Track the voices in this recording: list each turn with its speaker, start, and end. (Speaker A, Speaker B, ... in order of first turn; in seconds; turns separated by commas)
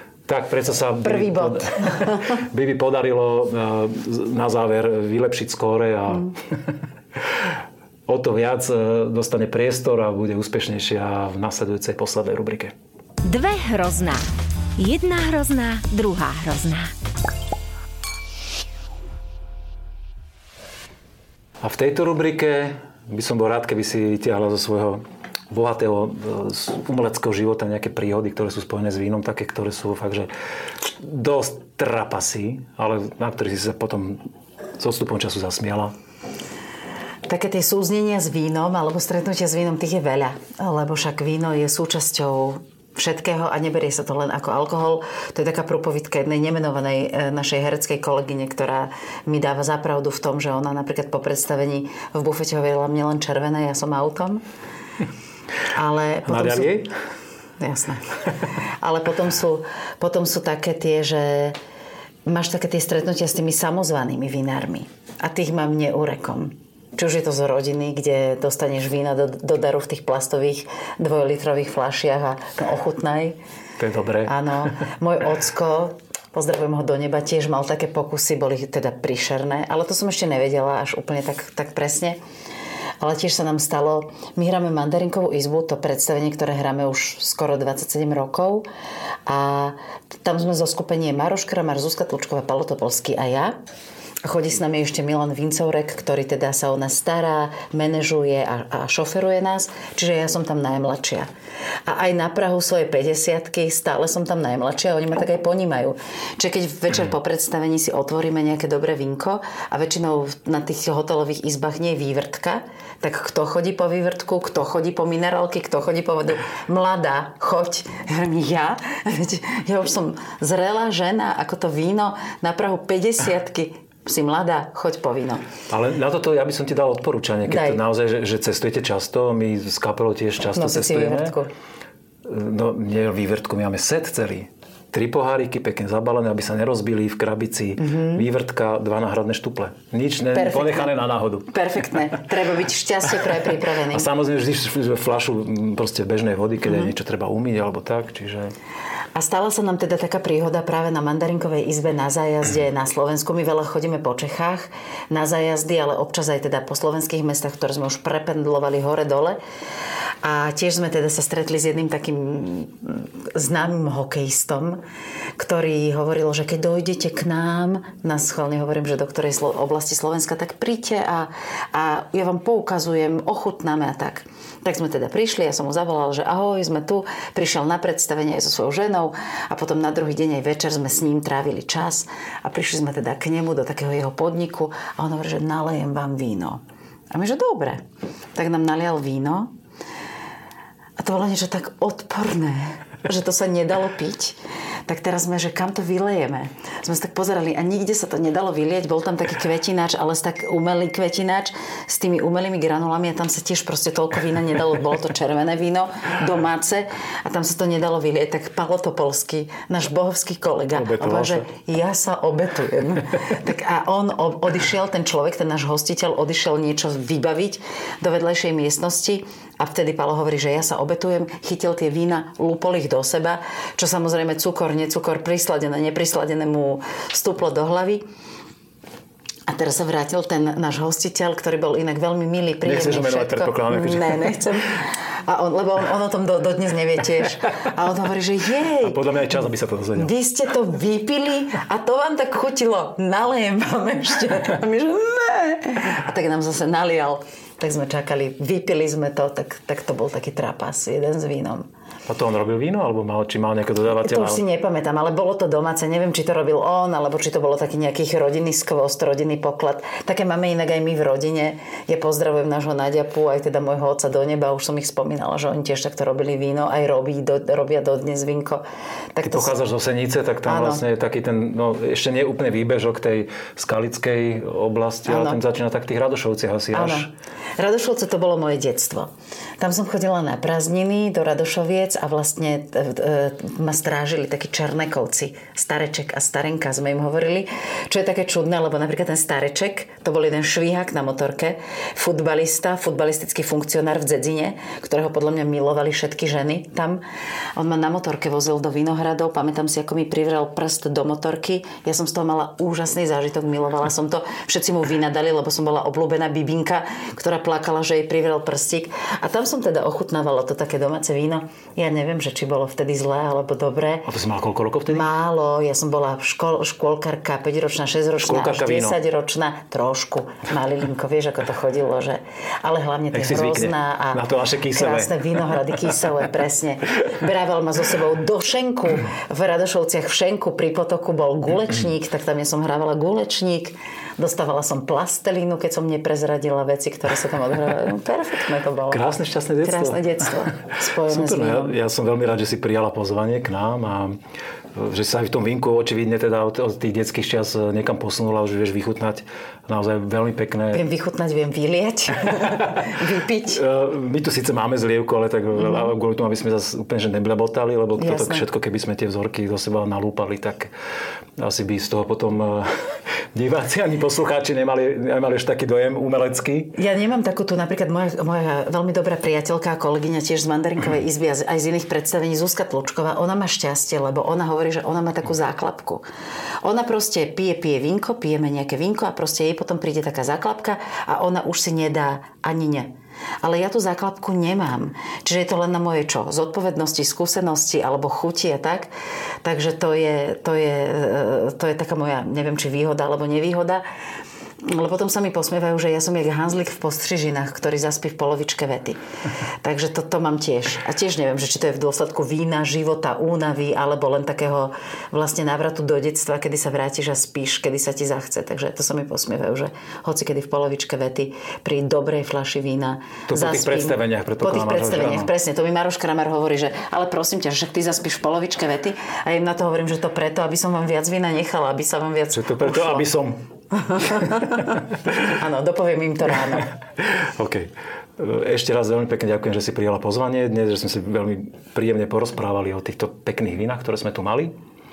Speaker A: 0.2-6.7, Speaker B: 1.0-2.4, Speaker A: 8.1-12.7, Speaker C: 13.2-16.9, Speaker A: 21.6-30.3, Speaker A: 31.0-34.2, Speaker A: 34.8-35.9, Speaker B: 37.2-54.4, Speaker B: 55.7-56.9, Speaker A: 56.2-56.9, Speaker B: 57.6-58.2, Speaker B: 58.8-61.6, Speaker B: 62.2-73.4, Speaker A: 73.8-74.7, Speaker B: 74.2-82.2, Speaker B: 83.0-88.7, Speaker B: 89.2-93.5, Speaker B: 94.2-101.3, Speaker B: 101.9-125.5, Speaker A: 125.7-131.4, Speaker B: 127.5-127.8, Speaker B: 130.5-131.5, Speaker A: 132.2-142.2, Speaker B: 137.8-138.2, Speaker B: 140.3-140.9, Speaker B: 141.5-144.1, Speaker A: 143.9-148.5, Speaker B: 149.1-159.4, Speaker B: 160.2-164.8, Speaker B: 165.4-186.6, Speaker B: 187.1-187.8, Speaker B: 188.3-189.5, Speaker B: 191.0-228.0, Speaker A: 210.7-211.4, Speaker B: 229.5-239.0, Speaker A: 232.6-234.5, Speaker A: 238.8-240.1, Speaker B: 239.9-251.7, Speaker A: 252.1-254.4, Speaker B: 254.0-268.6, Speaker B: 269.1-269.6, Speaker A: 269.2-277.1, Speaker B: 270.4-270.8, Speaker B: 275.1-275.4, Speaker B: 276.7-297.0, Speaker B: 297.6-314.1, Speaker A: 314.1-315.1, Speaker B: 314.9-339.1, Speaker A: 318.2-319.0, Speaker A: 323.1-325.2, Speaker A: 338.9-340.5, Speaker B: 339.6-341.7, Speaker A: 341.1-344.2, Speaker A: 344.7-350.8, Speaker B: 350.7-353.6, Speaker A: 353.5-360.7, Speaker B: 355.6-355.9, Speaker B: 358.0-358.4, Speaker A: 361.4-366.8, Speaker B: 366.7-376.0, Speaker B: 376.6-382.9, Speaker B: 383.4-388.9, Speaker B: 389.4-393.8, Speaker B: 394.6-399.0, Speaker B: 399.6-423.1, Speaker A: 413.3-415.3, Speaker A: 422.3-423.4, Speaker B: 423.7-426.7, Speaker A: 424.0-424.4, Speaker A: 427.0-434.6